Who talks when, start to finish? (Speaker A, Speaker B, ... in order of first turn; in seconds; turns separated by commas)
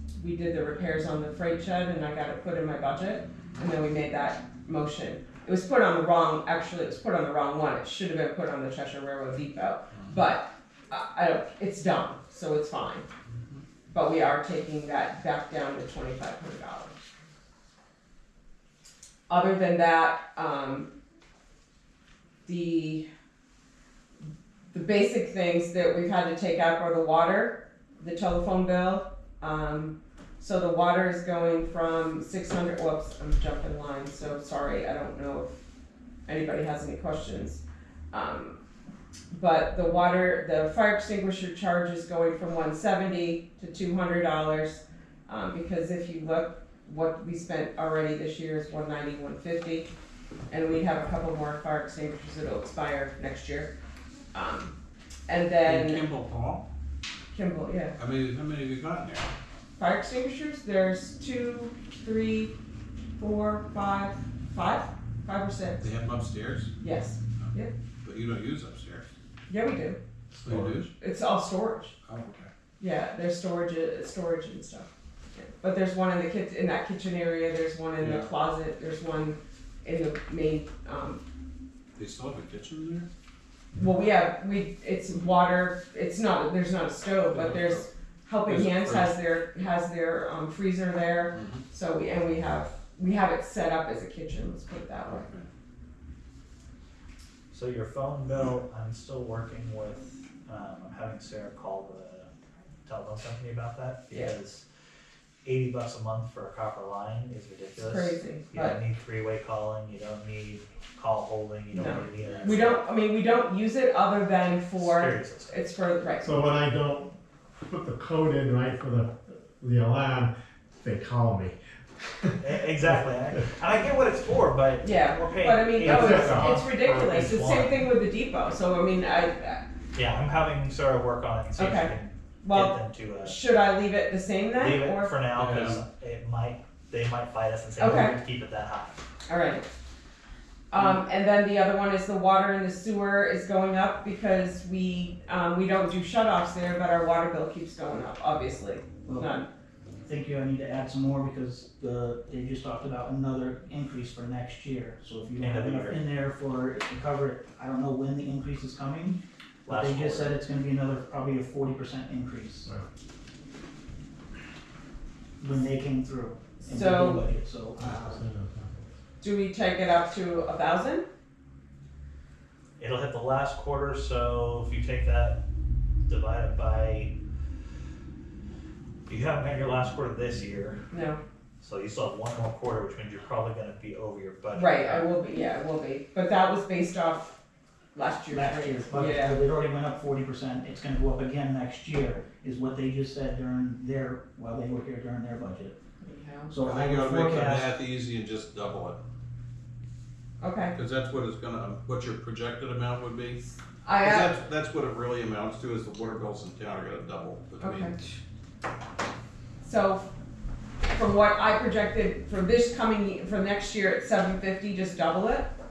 Speaker A: 0.1-13.1, Speaker A: 13.9-16.9, Speaker A: 19.3-20.9, Speaker A: 22.4-23.0, Speaker A: 24.7-35.6, Speaker A: 36.2-38.6, Speaker A: 39.3-49.9, Speaker A: 50.5-53.7, Speaker A: 54.3-54.7, Speaker A: 55.3-56.0, Speaker B: 55.6-56.6, Speaker A: 57.3-58.0, Speaker B: 58.0-59.3, Speaker A: 59.8-62.5, Speaker A: 63.2-65.9, Speaker B: 65.8-66.7, Speaker A: 66.8-67.7, Speaker B: 68.0-69.0, Speaker A: 69.5-70.0, Speaker B: 70.4-70.9, Speaker C: 70.4-70.8, Speaker A: 70.9-71.9, Speaker B: 72.0-72.5, Speaker A: 72.8-81.2, Speaker B: 78.0-78.3, Speaker B: 82.0-83.1, Speaker A: 83.8-95.2, Speaker B: 87.3-87.9, Speaker B: 88.5-89.1, Speaker B: 91.3-91.6, Speaker B: 95.0-95.5, Speaker D: 97.5-102.3, Speaker D: 102.8-104.6, Speaker D: 105.4-112.8, Speaker A: 107.8-108.8, Speaker A: 111.7-116.3, Speaker D: 114.8-115.5, Speaker C: 116.2-121.5, Speaker C: 122.1-123.0, Speaker D: 122.4-127.9, Speaker A: 124.8-129.6, Speaker C: 125.9-126.7, Speaker D: 129.9-133.3, Speaker A: 131.6-135.1, Speaker D: 134.6-139.0, Speaker B: 135.3-135.8, Speaker A: 137.8-138.2, Speaker A: 139.3-139.7, Speaker A: 140.7-149.5, Speaker E: 150.0-162.7, Speaker D: 155.4-156.0, Speaker D: 159.7-160.4, Speaker E: 165.4-168.2, Speaker A: 166.6-167.2, Speaker C: 167.8-168.8, Speaker A: 169.2-171.1, Speaker D: 172.8-175.4, Speaker D: 176.1-177.1, Speaker D: 179.1-180.8, Speaker A: 180.9-181.2, Speaker D: 181.6-185.1, Speaker A: 184.5-187.4, Speaker A: 187.9-189.4, Speaker E: 188.3-195.8, Speaker A: 196.0-196.5, Speaker E: 196.5-197.7, Speaker B: 196.6-199.0, Speaker A: 200.4-200.7, Speaker B: 200.7-203.4, Speaker A: 203.8-204.3, Speaker B: 204.0-208.0, Speaker A: 207.6-208.0, Speaker A: 209.6-210.1, Speaker A: 210.9-215.5